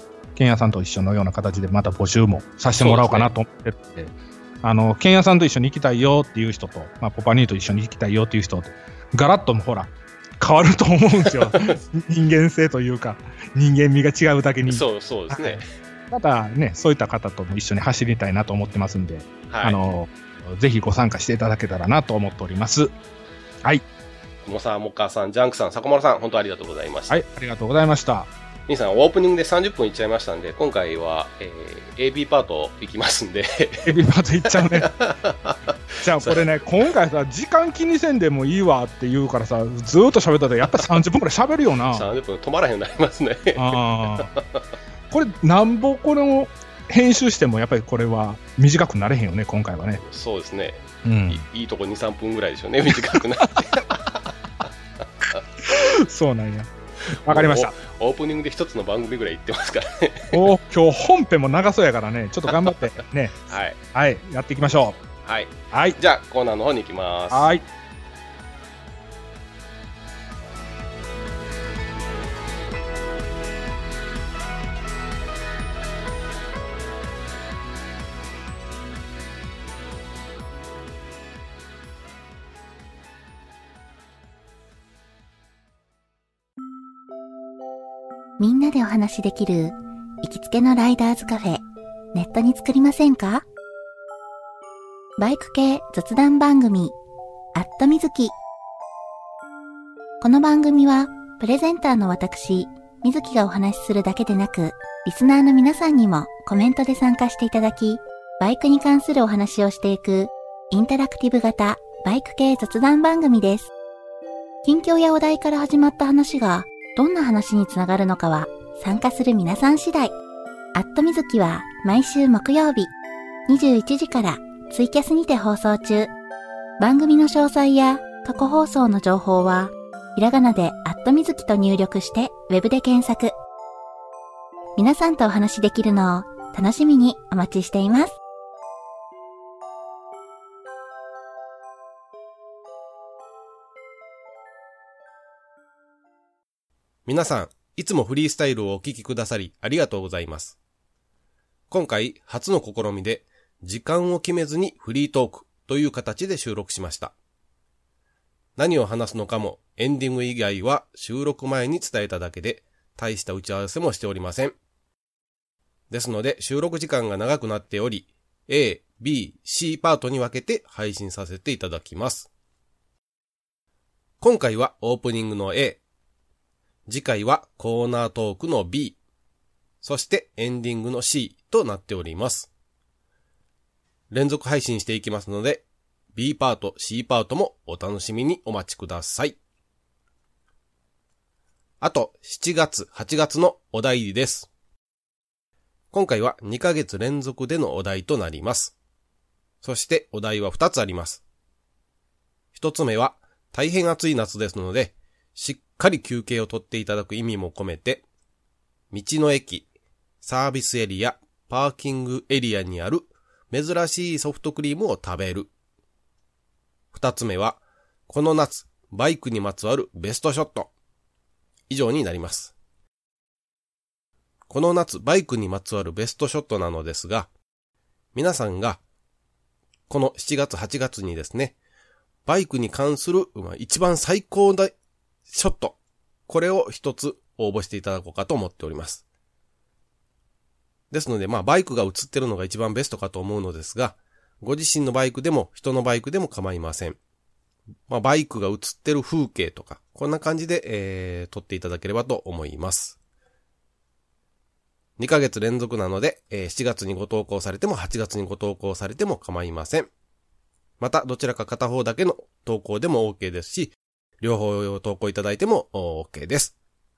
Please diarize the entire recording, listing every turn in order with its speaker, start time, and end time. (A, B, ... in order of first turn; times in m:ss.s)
0:00.4-0:22.9 A
0:02.8-0:03.3 B
0:11.4-0:11.8 B
0:14.7-0:15.6 B
0:19.5-0:19.8 B
0:24.4-0:27.2 B
0:27.1-0:28.3 A
0:28.7-0:33.9 B
0:33.8-0:34.9 A
0:34.5-0:36.6 B
0:36.0-0:42.1 A
0:41.9-0:44.6 B
0:43.6-0:44.3 A
0:45.1-0:50.0 A
0:50.0-0:54.3 B
0:51.0-0:51.4 A
0:53.1-0:53.6 A
0:55.6-0:57.7 A
0:57.1-1:00.4 B
1:00.3-1:05.0 A
1:02.5-1:02.8 B
1:03.5-1:03.8 B
1:05.2-1:07.5 B
1:05.7-1:06.0 A
1:07.3-1:07.6 A
1:28.4-1:31.6 C
1:32.1-1:33.4 C
1:35.2-1:37.0 C
1:37.6-1:38.3 C
1:40.2-1:53.7 C
1:54.6-2:00.1 C
2:00.8-2:02.9 C
2:03.5-2:06.1 C
2:06.8-2:13.3 C
2:14.8-2:18.2 C
2:27.1-2:30.6 B
2:31.7-2:37.1 B
2:38.6-2:44.6 B
2:45.9-2:52.3 B
2:54.2-2:55.8 B
2:56.9-2:59.0 B
2:59.8-3:02.5 B
3:04.1-3:09.4 B
3:11.8-3:14.5 B
3:15.9-3:18.8 B
3:19.6-3:21.2 B
3:22.5-3:28.0 B
3:28.9-3:29.7 B
3:30.2-3:35.5 B
3:36.9-3:40.7 B
3:41.7-3:42.5 B
3:44.5-3:47.3 B
3:48.1-3:48.8 B
3:49.9-3:51.6 B
3:52.3-3:54.8 B
3:55.3-3:59.0 B
4:00.9-4:07.0 B
4:07.9-4:13.0 B
4:15.0-4:19.9 B
4:20.8-4:26.6 B